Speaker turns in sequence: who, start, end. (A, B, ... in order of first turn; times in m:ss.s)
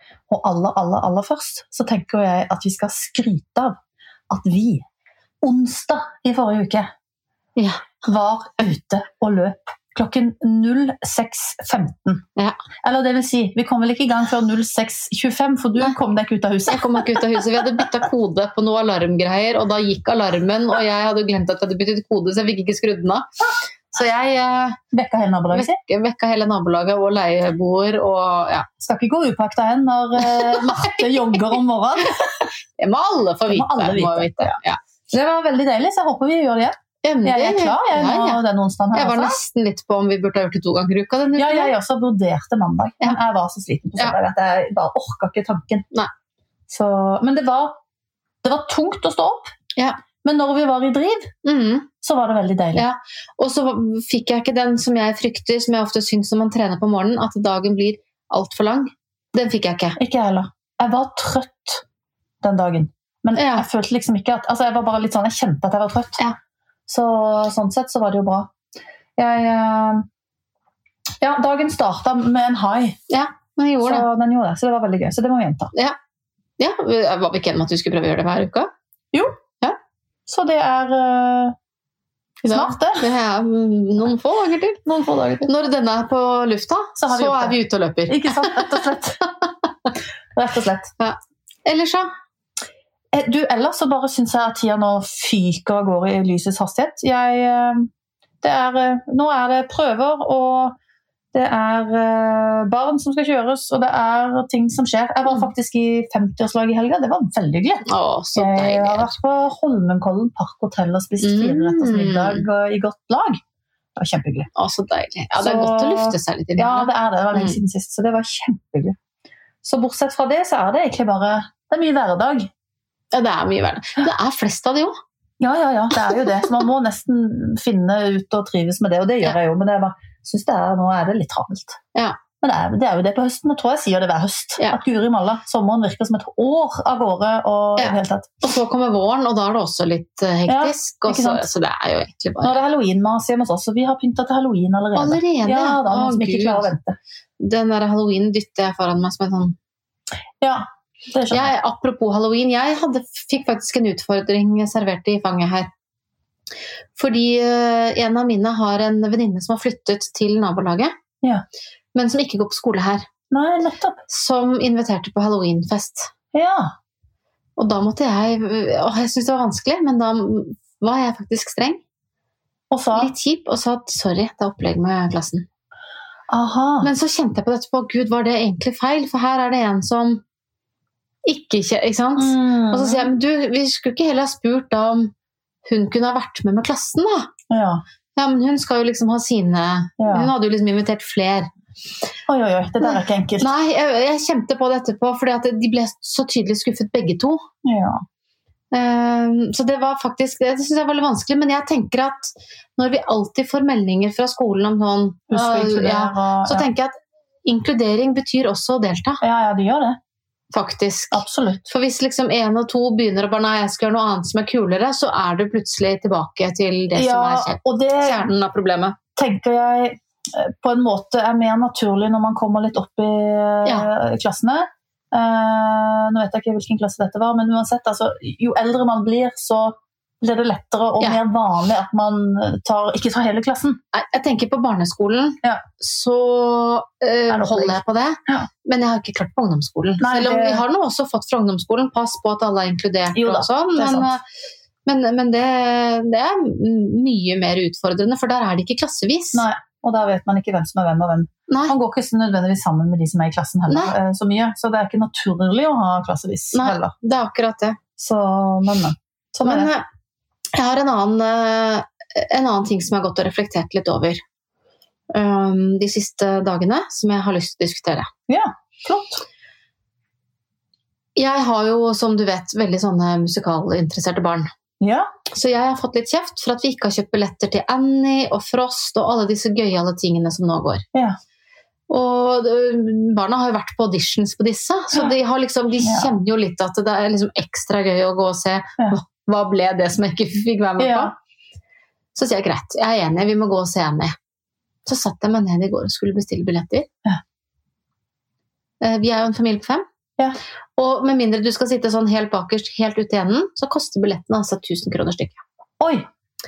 0:00.3-0:03.8 A
0:04.3-0:04.8 A
0:05.4-0:06.9 A
0:07.6-0:07.9 B
0:08.0-0:12.2 A
0:12.8-0:17.8 A
0:16.7-0:24.8 B
0:24.9-0:25.8 A
0:25.5-0:28.7 B
0:28.8-0:32.5 A
0:30.2-0:31.6 B
0:32.8-0:34.8 B
0:33.5-0:34.6 A
0:35.1-0:39.4 A
0:37.0-0:38.4 B
0:38.9-0:41.8 B
0:41.4-0:45.9 A
0:46.7-0:47.8 A
0:48.4-0:49.5 A
0:50.2-0:51.3 A
0:51.4-0:51.9 B
0:52.0-0:52.8 A
0:52.8-1:00.0 B
1:00.0-1:01.8 A
1:02.4-1:06.2 A
1:03.4-1:03.7 B
1:06.9-1:08.5 A
1:09.2-1:10.1 A
1:11.2-1:13.0 A
1:13.1-1:14.1 B
1:13.8-1:15.7 A
1:16.6-1:18.7 B
1:20.3-1:21.6 A
1:22.4-1:24.8 B
1:22.5-1:23.0 A
1:24.9-1:25.5 A
1:25.4-1:28.8 B
1:27.0-1:27.6 A
1:28.1-1:29.2 A
1:30.3-1:30.9 A
1:31.0-1:32.1 B
1:33.1-1:37.9 A
1:38.4-1:40.8 A
1:41.3-1:53.4 A
1:47.9-1:49.1 B
1:51.2-1:52.4 B
1:54.0-1:54.5 A
1:54.6-1:57.6 B
1:55.4-1:59.0 A
1:59.6-2:02.5 A
2:03.1-2:05.0 B
2:05.4-2:11.8 A
2:12.4-2:18.3 A
2:17.8-2:22.6 B
2:20.5-2:21.4 A
2:22.4-2:27.0 A
2:24.9-2:26.7 B
2:27.4-2:29.6 B
2:30.4-2:31.5 A
2:31.3-2:35.7 B
2:37.0-2:40.9 B
2:41.9-2:43.1 B
2:43.3-2:44.0 A
2:44.1-2:46.1 B
2:46.3-2:46.7 A
2:47.6-2:51.8 B
2:52.7-2:53.1 A
2:52.9-2:55.4 B
2:56.3-2:56.9 A
2:56.8-3:00.2 B
3:01.2-3:05.1 B
3:02.2-3:03.1 A
3:05.7-3:07.3 B
3:07.5-3:07.8 A
3:08.2-3:11.5 B
3:10.0-3:10.3 A
3:12.3-3:13.5 A
3:12.8-3:17.4 B
3:17.6-3:18.0 A
3:18.7-3:26.9 B
3:25.3-3:26.7 A
3:27.4-3:29.2 B
3:29.2-3:30.0 A
3:30.5-3:39.0 B
3:31.1-3:31.7 A
3:36.9-3:38.3 A
3:39.2-3:53.8 A
3:53.9-4:04.2 B
3:57.3-3:58.5 A
4:00.0-4:00.6 A
4:03.1-4:04.1 A
4:04.9-4:09.5 B
4:09.3-4:16.9 A
4:11.5-4:11.8 B
4:13.7-4:13.9 B
4:16.5-4:17.8 B
4:18.0-4:19.7 A
4:19.4-4:19.8 B
4:20.6-4:24.2 B
4:25.1-4:28.1 B
4:28.3-4:29.2 A
4:31.2-4:34.5 B
4:34.8-4:35.1 A
4:35.3-4:40.8 B
4:41.9-4:51.1 B
4:45.8-4:46.1 A
4:50.8-4:51.1 A
4:52.2-4:54.2 B
4:54.9-4:56.9 B
4:58.8-4:59.8 B
5:00.8-5:05.4 B
5:05.8-5:06.1 A